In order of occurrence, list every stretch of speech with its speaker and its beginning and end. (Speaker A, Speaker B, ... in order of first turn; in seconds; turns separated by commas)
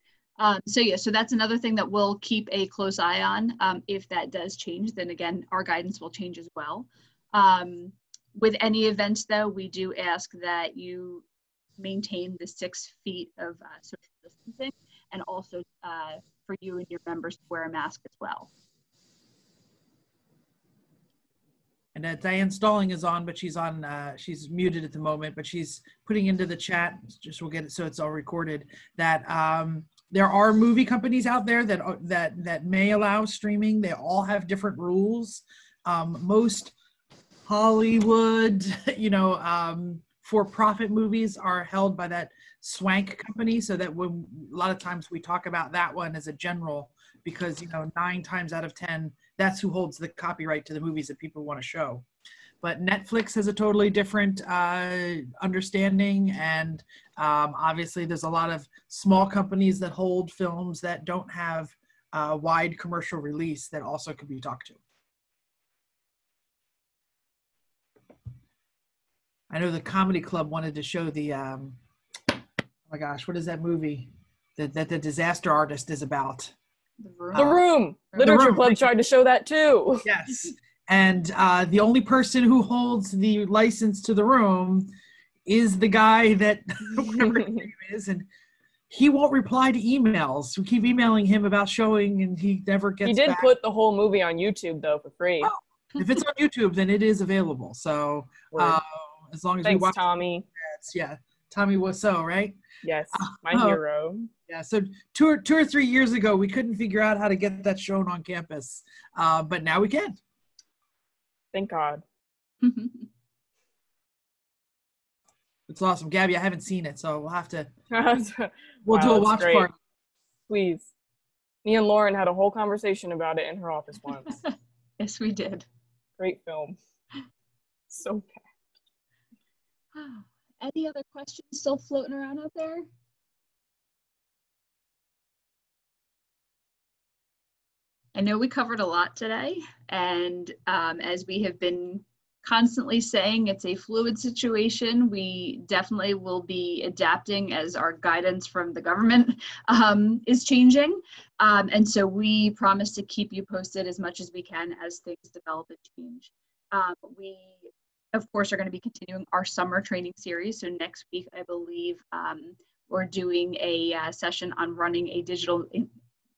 Speaker A: 0.4-11.2, Speaker A: 11.8-18.5, Speaker B: 21.9-36.7, Speaker B: 37.5-52.0, Speaker B: 52.6-64.8, Speaker B: 69.5-71.8, Speaker B: 72.9-76.5, Speaker A: 77.0-77.6, Speaker B: 77.3-77.6, Speaker C: 77.3-80.0, Speaker A: 78.1-78.5, Speaker B: 78.2-78.9, Speaker B: 80.0-84.9, Speaker B: 85.5-88.3, Speaker B: 88.9-93.5, Speaker C: 93.0-95.5, Speaker B: 95.4-100.0, Speaker C: 98.5-98.8, Speaker C: 99.6-100.5, Speaker B: 100.6-102.6, Speaker C: 102.8-104.3, Speaker B: 103.1-103.8, Speaker B: 104.5-110.2, Speaker C: 111.5-112.0, Speaker A: 112.6-113.0, Speaker B: 115.7-117.7, Speaker C: 117.9-119.7, Speaker B: 118.8-119.7, Speaker C: 120.5-120.9, Speaker C: 121.6-124.4, Speaker A: 125.0-125.7, Speaker C: 126.2-126.8, Speaker C: 127.9-128.4, Speaker A: 129.9-132.9, Speaker A: 138.1-165.9